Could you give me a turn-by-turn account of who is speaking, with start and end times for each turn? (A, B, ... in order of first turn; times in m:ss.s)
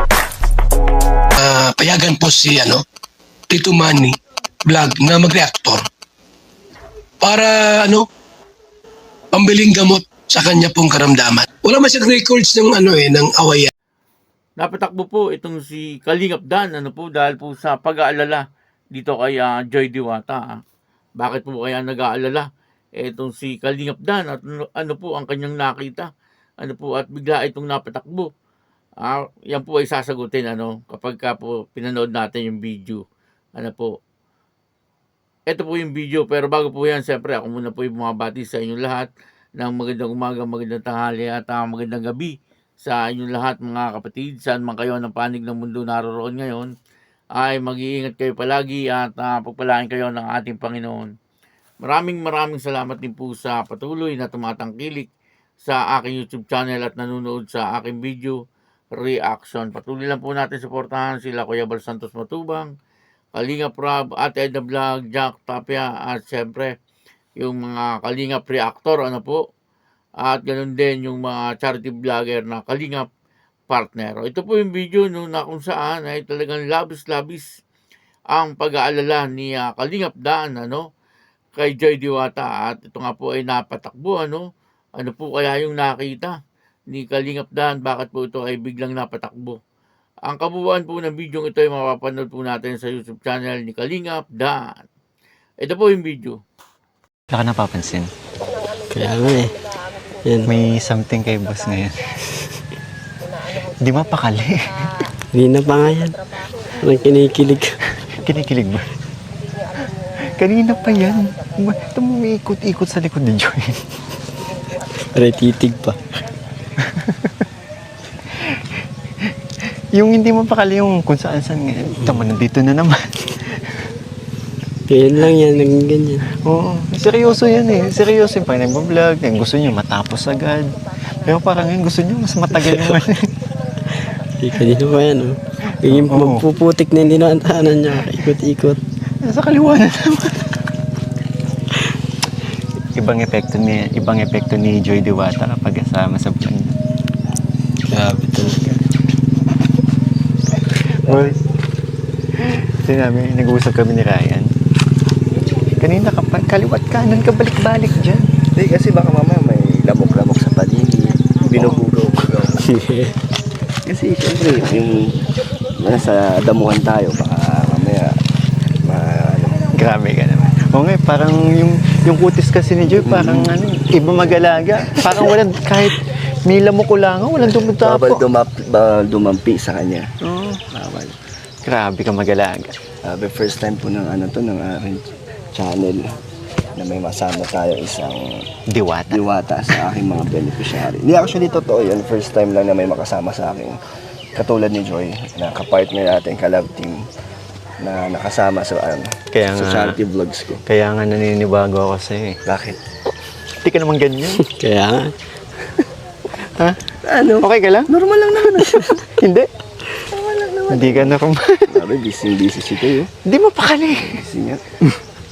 0:01.4-0:02.8 A
0:03.5-0:05.9 A
0:07.2-0:08.1 A
0:09.3-0:13.7 A
0:14.6-0:20.6 B
0:21.2-0:26.1 B
0:26.6-0:28.3 B
0:29.0-0:33.0 B
0:33.6-0:34.0 B
0:35.5-0:46.7 B
0:47.3-0:51.1 B
0:51.8-0:55.1 B
0:55.6-0:58.4 B
0:58.9-1:02.7 B
1:03.3-1:06.7 B
1:07.4-1:09.4 B
1:10.2-1:13.1 B
1:13.7-1:17.4 B
1:18.3-1:20.9 B
1:21.5-1:24.4 B
1:25.0-1:26.4 B
1:26.9-1:29.6 B
1:30.2-1:34.6 B
1:35.6-1:36.4 B
1:37.3-1:38.1 C
1:38.9-1:39.6 D
1:40.2-1:40.5 D
1:40.4-1:42.2 C
1:43.8-1:45.0 C
1:45.3-1:46.2 D
1:46.8-1:47.8 D
1:48.0-1:48.9 C
1:50.4-1:53.8 C
1:55.1-1:56.0 D
1:56.8-1:57.3 C
1:59.9-2:03.6 C
2:04.9-2:06.2 D
2:06.3-2:13.3 C
2:12.5-2:13.0 D
2:14.1-2:18.8 D
2:15.8-2:16.4 C
2:19.2-2:20.5 C
2:23.0-2:26.7 C
2:27.8-2:28.8 D
2:30.7-2:31.4 C
2:32.4-2:34.5 C
2:35.8-2:38.3 C
2:38.5-2:42.6 E
2:42.6-2:43.1 D
2:43.8-2:45.2 E
2:45.8-2:48.1 E
2:48.8-2:49.7 E
2:49.7-2:58.2 C
2:53.0-2:53.5 E
2:54.9-2:55.3 E
2:57.4-3:00.1 E
3:00.2-3:00.6 C
3:00.7-3:01.2 E
3:01.6-3:02.7 C
3:03.0-3:06.1 E
3:06.7-3:08.4 E
3:08.7-3:09.3 C
3:09.1-3:13.8 E
3:14.3-3:17.0 E
3:17.8-3:20.6 E
3:19.3-3:20.0 C
3:20.6-3:22.4 C
3:22.4-3:22.8 E
3:23.6-3:24.4 C
3:24.5-3:25.1 D
3:27.0-3:29.0 E
3:27.4-3:29.5 C
3:30.0-3:33.1 E
3:30.7-3:31.8 C
3:33.2-3:34.2 C
3:34.0-3:34.6 E